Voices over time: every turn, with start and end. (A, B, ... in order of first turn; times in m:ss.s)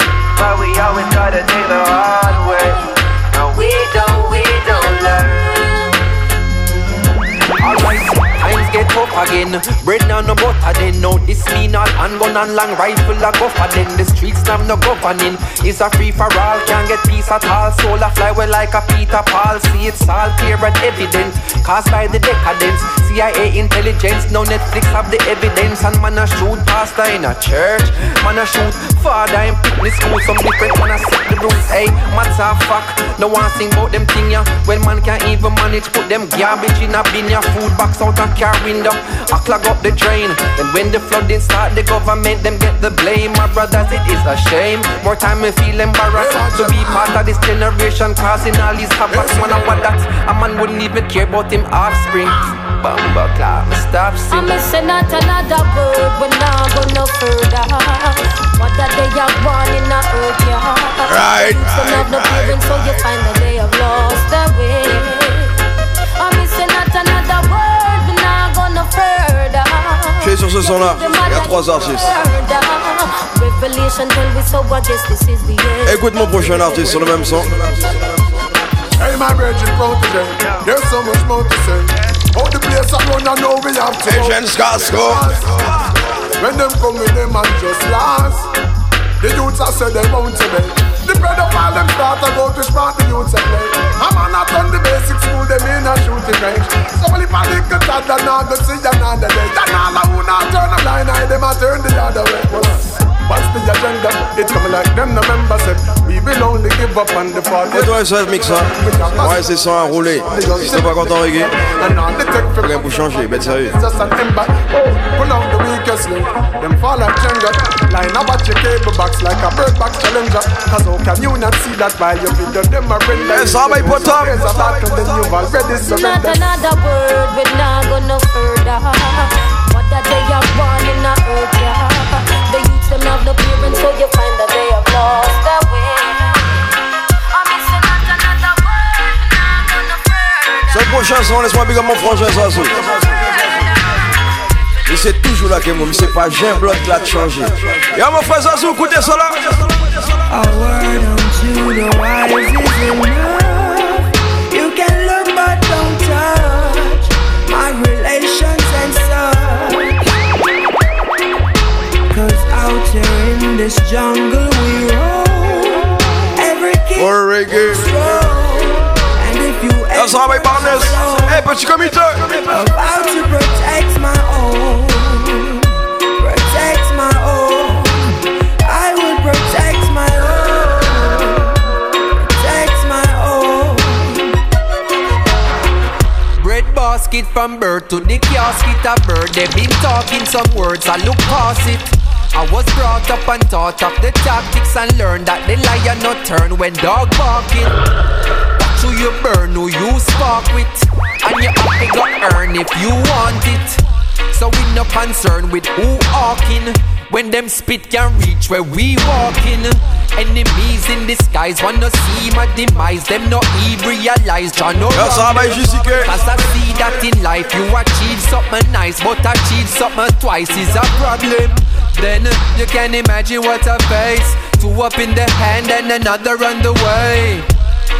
0:00.4-0:02.8 A
0:03.3-0:05.4 A
0:07.6-0:54.5 A
0:46.1-0:47.2 B
0:49.1-0:49.8 B
0:54.3-1:05.5 C
1:01.0-1:02.6 D
1:06.2-1:16.0 C
1:10.2-1:12.1 D
1:15.8-1:17.9 D
1:19.0-1:25.7 B
1:24.0-1:25.3 D
1:26.4-1:28.5 B
1:29.2-1:49.5 B
1:47.7-1:51.6 D
1:50.2-2:06.4 B
1:52.6-1:53.7 D
2:03.3-2:05.2 D
2:05.7-2:16.6 C
2:17.3-2:21.0 C
2:20.7-2:23.0 D
2:22.8-2:24.0 C
2:24.8-2:29.9 D
2:30.3-2:40.0 E
2:42.1-2:51.4 E
2:46.9-2:47.9 D
2:49.9-2:52.4 D
2:52.4-3:01.6 E
3:02.3-3:04.3 E
3:06.3-3:17.7 A
3:18.6-3:23.8 A
3:24.3-3:47.5 A
3:34.9-3:36.1 D